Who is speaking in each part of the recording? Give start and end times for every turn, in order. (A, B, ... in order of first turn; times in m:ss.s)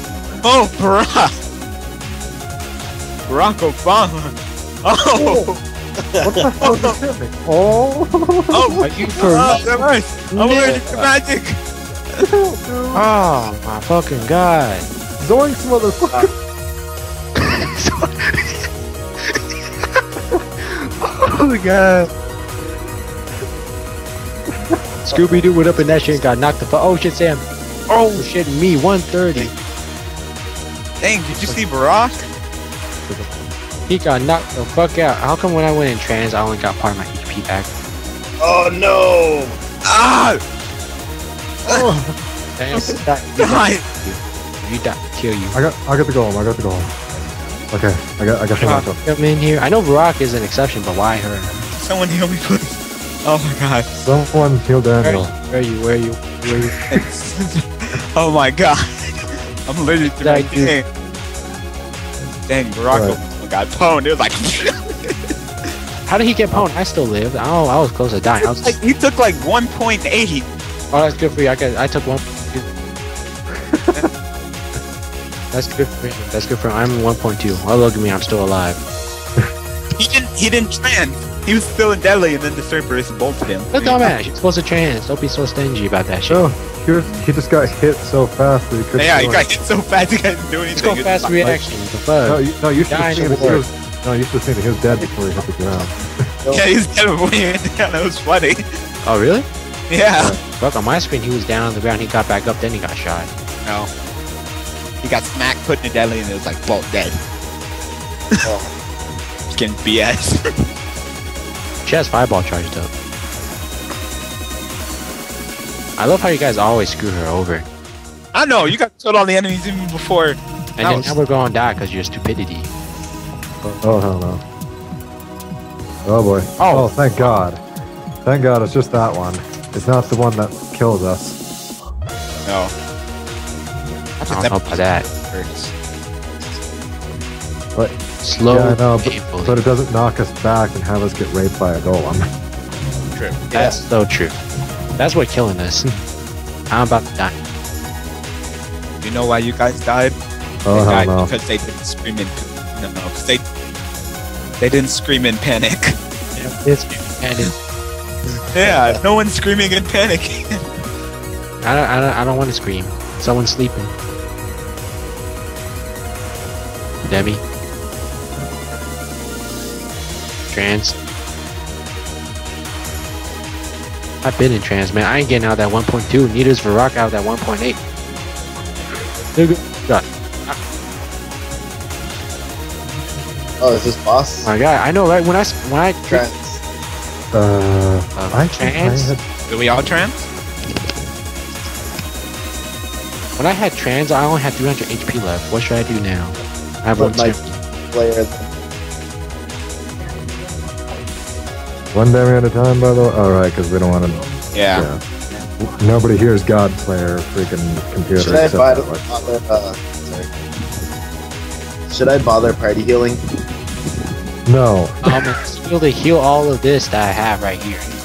0:00.4-0:01.3 A
0:03.3-0:05.6 A
0:05.1-0:05.5 B
0:06.1-0:06.6 C
0:06.2-0:09.3 B
0:06.6-0:07.0 A
0:08.5-0:11.6 A
0:08.8-0:10.9 D
0:12.2-0:13.1 B
0:12.9-0:14.9 D
0:15.2-0:16.3 B
0:17.4-0:18.7 D
0:20.6-0:22.1 D
0:25.1-0:29.5 D
0:25.1-0:26.2 C
0:31.0-0:32.3 A
0:33.1-0:33.4 B
0:33.9-0:37.7 D
0:38.4-0:39.6 C
0:39.8-0:40.4 A
0:41.7-0:42.2 B
0:42.6-0:45.6 D
0:42.8-0:43.8 A
0:45.5-0:46.9 B
0:47.7-0:49.0 B
0:48.6-0:51.7 D
0:51.7-0:53.9 A
0:53.9-0:55.3 B
0:55.0-0:56.7 D
0:56.9-1:00.9 A
1:00.2-1:00.8 D
1:02.5-1:05.2 A
1:02.9-1:03.2 B
1:06.1-1:08.8 D
1:08.4-1:10.5 A
1:10.9-1:12.7 D
1:13.5-1:14.1 B
1:15.5-1:18.8 D
1:20.0-1:24.1 A
1:23.7-1:26.5 D
1:26.3-1:29.5 B
1:29.0-1:31.3 A
1:30.8-1:33.7 D
1:31.4-1:31.7 B
1:32.2-1:36.0 B
1:36.5-1:38.6 A
1:39.0-1:39.5 D
1:39.9-1:40.4 A
1:40.4-1:43.3 D
1:43.6-1:43.9 A
1:45.0-1:47.2 A
1:48.4-1:48.7 C
1:49.5-1:50.4 A
1:51.9-1:52.9 D
1:56.0-1:57.7 D
1:58.3-2:01.2 A
2:00.8-2:02.7 D
2:03.6-2:04.4 B
2:06.0-2:07.6 B
2:06.6-2:07.3 D
2:08.2-2:11.4 B
2:12.4-2:12.7 A
2:14.2-2:15.7 A
2:14.2-2:15.1 D
2:18.2-2:19.6 D
2:18.5-2:22.2 B
2:23.1-2:23.4 A
2:23.5-2:23.8 C
2:23.5-2:24.4 D
2:25.0-2:26.0 D
2:26.7-2:27.4 D
2:29.0-2:30.2 A
2:30.6-2:31.3 B
2:30.7-2:33.4 A
2:34.6-2:36.0 A
2:36.4-2:37.5 D
2:38.5-2:40.6 A
2:38.6-2:39.0 C
2:41.6-2:43.9 D
2:47.1-2:47.4 D
2:50.5-2:51.0 D
2:54.2-2:57.8 D
2:59.3-3:00.6 D
3:03.6-3:04.5 C
3:04.4-3:06.2 D
3:06.1-3:06.6 C
3:07.3-3:09.2 B
3:08.2-3:09.1 D
3:09.5-3:10.3 A
3:13.4-3:17.6 D
3:17.0-3:18.5 C
3:21.9-3:25.0 B
3:24.5-3:24.9 A
3:25.6-3:29.2 B
3:28.2-3:30.3 C
3:31.9-3:33.2 C
3:34.5-3:35.0 B
3:35.0-3:38.0 D